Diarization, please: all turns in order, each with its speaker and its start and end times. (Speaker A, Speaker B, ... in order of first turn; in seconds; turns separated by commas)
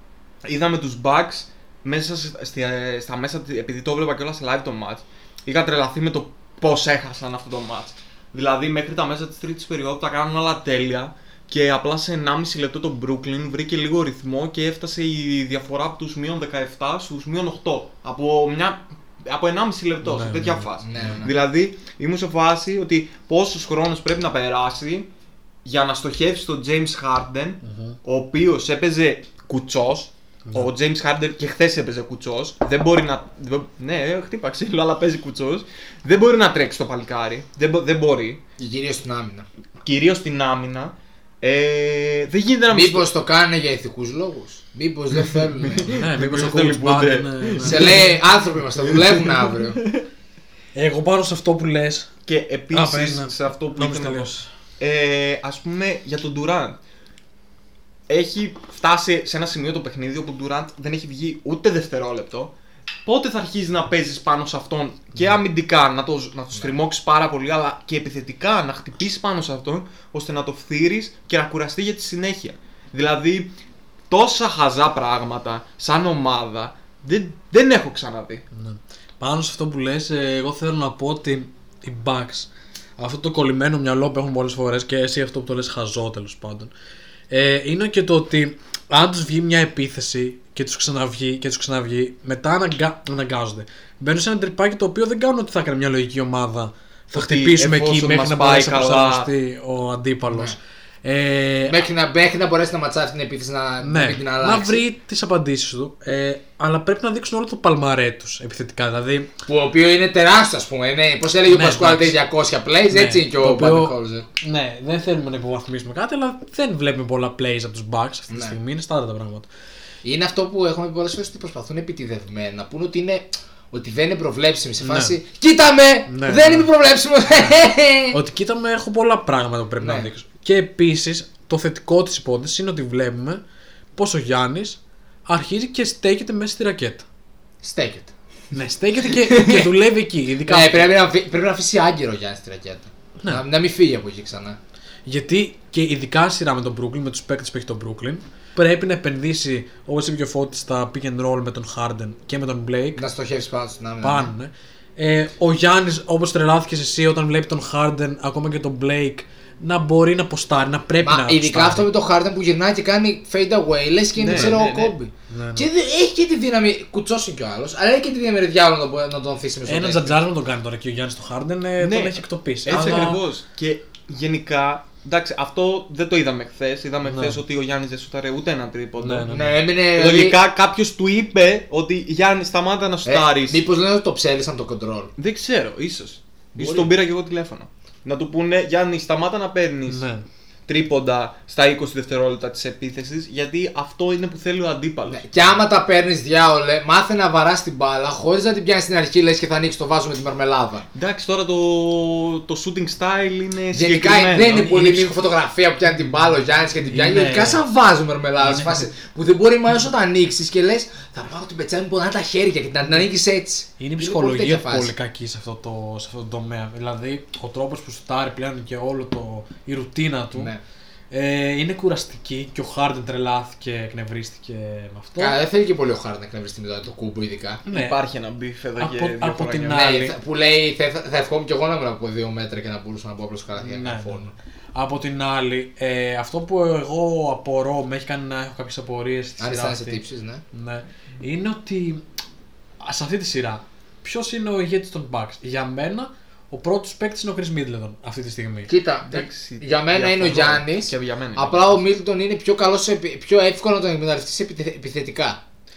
Speaker A: 0.4-25.1, Speaker B: 20.0-20.7, Speaker C: 20.8-21.3, Speaker A: 25.6-38.4, Speaker B: 27.6-28.0, Speaker C: 38.6-39.5, Speaker A: 39.8-43.1, Speaker C: 42.7-45.9, Speaker A: 45.6-48.1, Speaker B: 45.9-48.1, Speaker C: 47.6-49.8, Speaker A: 48.8-50.0, Speaker B: 50.8-52.1, Speaker A: 52.3-56.8, Speaker B: 52.7-54.5, Speaker A: 58.1-62.5, Speaker A: 63.0-73.5, Speaker A: 74.1-78.4, Speaker B: 78.5-86.7, Speaker B: 87.3-101.8, Speaker A: 97.2-99.3, Speaker C: 100.3-100.6, Speaker C: 101.7-104.8, Speaker B: 103.8-109.3, Speaker C: 109.5-114.2, Speaker B: 111.5-112.2, Speaker B: 112.9-119.5, Speaker C: 118.3-118.6, Speaker C: 120.0-128.2, Speaker B: 124.8-125.2, Speaker B: 126.1-126.7, Speaker B: 128.1-133.4, Speaker C: 129.8-130.1, Speaker B: 134.0-137.1, Speaker C: 137.6-138.1, Speaker B: 138.5-140.9, Speaker C: 139.2-139.7, Speaker C: 140.5-144.6, Speaker B: 145.1-153.0, Speaker C: 153.0-154.3, Speaker B: 154.0-161.9, Speaker C: 161.0-170.2, Speaker A: 164.2-164.9, Speaker B: 164.3-164.5, Speaker B: 165.3-165.7, Speaker B: 169.7-173.2, Speaker A: 171.8-179.4, Speaker C: 172.7-173.1, Speaker B: 177.1-177.4, Speaker B: 179.0-179.6, Speaker C: 179.3-180.4, Speaker A: 179.9-183.6, Speaker C: 183.1-185.1, Speaker A: 185.2-190.1, Speaker C: 186.6-186.9, Speaker B: 189.9-190.3, Speaker A: 190.7-195.2, Speaker C: 195.1-200.9, Speaker A: 200.9-205.1, Speaker C: 203.7-214.9, Speaker B: 206.9-207.6, Speaker B: 208.4-208.9, Speaker B: 213.8-220.5, Speaker C: 220.3-220.6, Speaker B: 221.1-225.4, Speaker C: 225.2-227.6, Speaker B: 227.7-228.0, Speaker A: 227.7-229.8, Speaker B: 228.8-230.2, Speaker C: 229.7-234.3, Speaker B: 233.6-234.2, Speaker B: 234.8-242.0, Speaker C: 239.4-240.4, Speaker B: 242.8-248.7, Speaker C: 248.7-255.4, Speaker A: 249.1-251.8